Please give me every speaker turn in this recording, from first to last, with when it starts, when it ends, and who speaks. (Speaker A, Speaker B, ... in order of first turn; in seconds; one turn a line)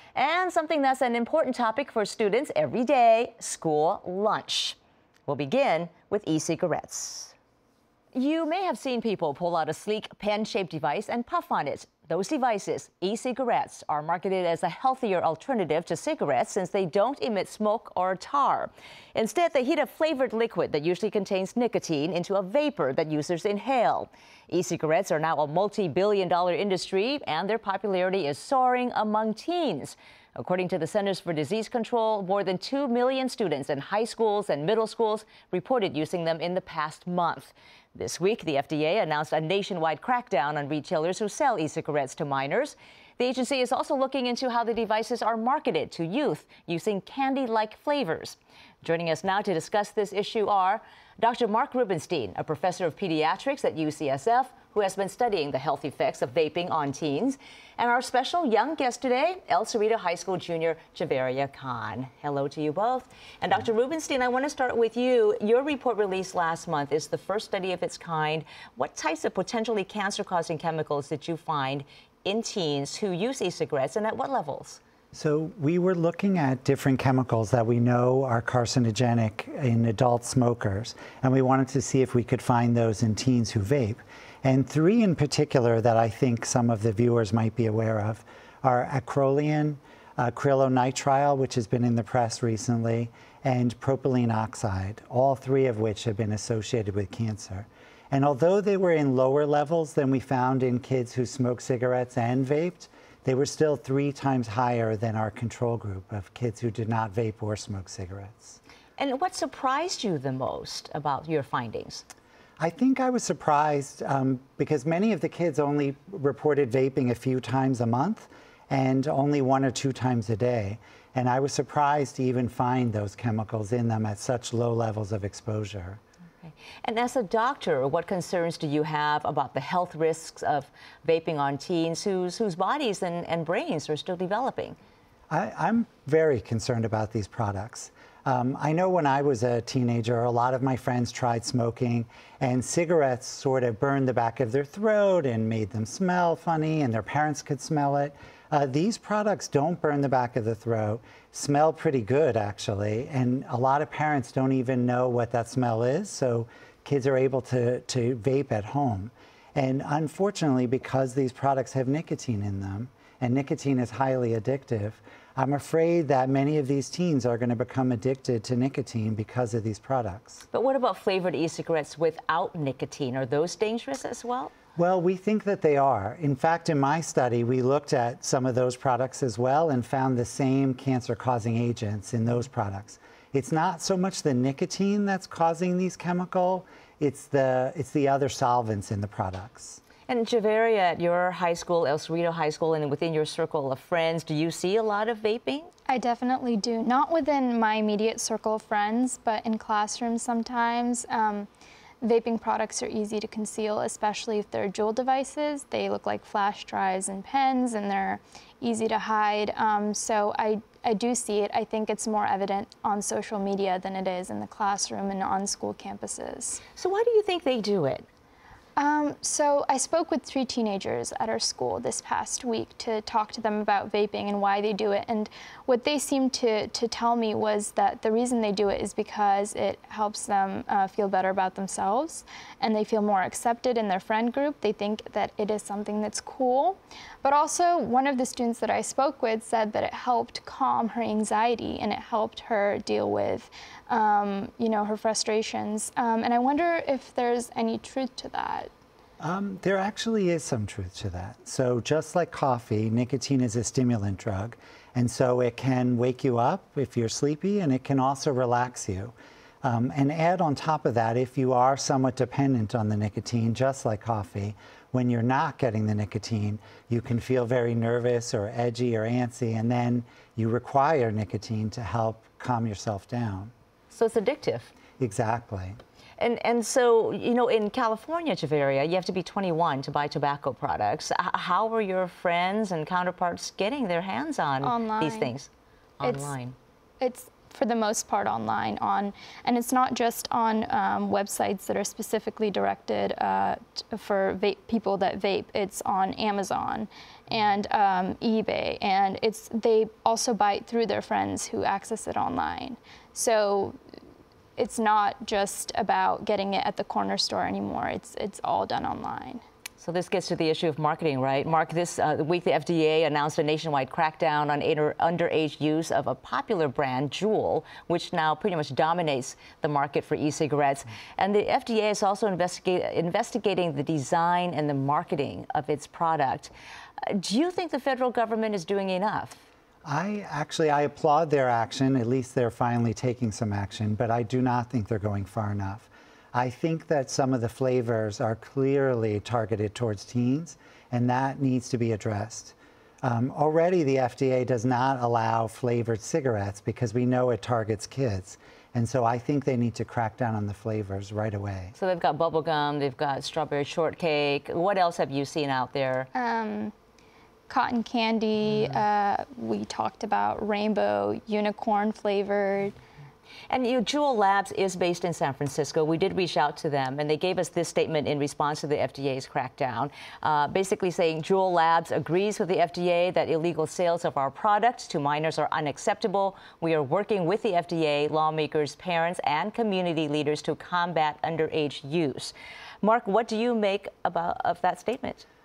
Speaker A: 0.1-4.8
Speaker A: 5.3-7.3
Speaker A: 8.1-74.8
Speaker B: 75.1-108.6
Speaker A: 109.0-112.0
Speaker B: 112.6-126.0
Speaker A: 126.4-134.8
Speaker B: 135.3-170.4
Speaker A: 170.5-174.5
Speaker B: 174.8-189.8
Speaker A: 190.1-195.7
Speaker C: 195.9-201.5
Speaker C: 202.0-216.6
Speaker A: 216.8-218.1
Speaker C: 218.8-248.7
Speaker B: 249.2-273.5
Speaker A: 273.9-274.7
Speaker B: 275.0-275.8
Speaker A: 276.2-285.5
Speaker C: 284.6-285.3
Speaker A: 286.0-286.6
Speaker C: 287.0-303.8
Speaker C: 304.6-309.4
Speaker A: 309.8-326.5
Speaker A: 327.1-329.4
Speaker B: 329.9-351.8
Speaker A: 351.8-356.1
Speaker C: 356.1-356.7
Speaker C: 357.5-362.8
Speaker A: 363.5-385.2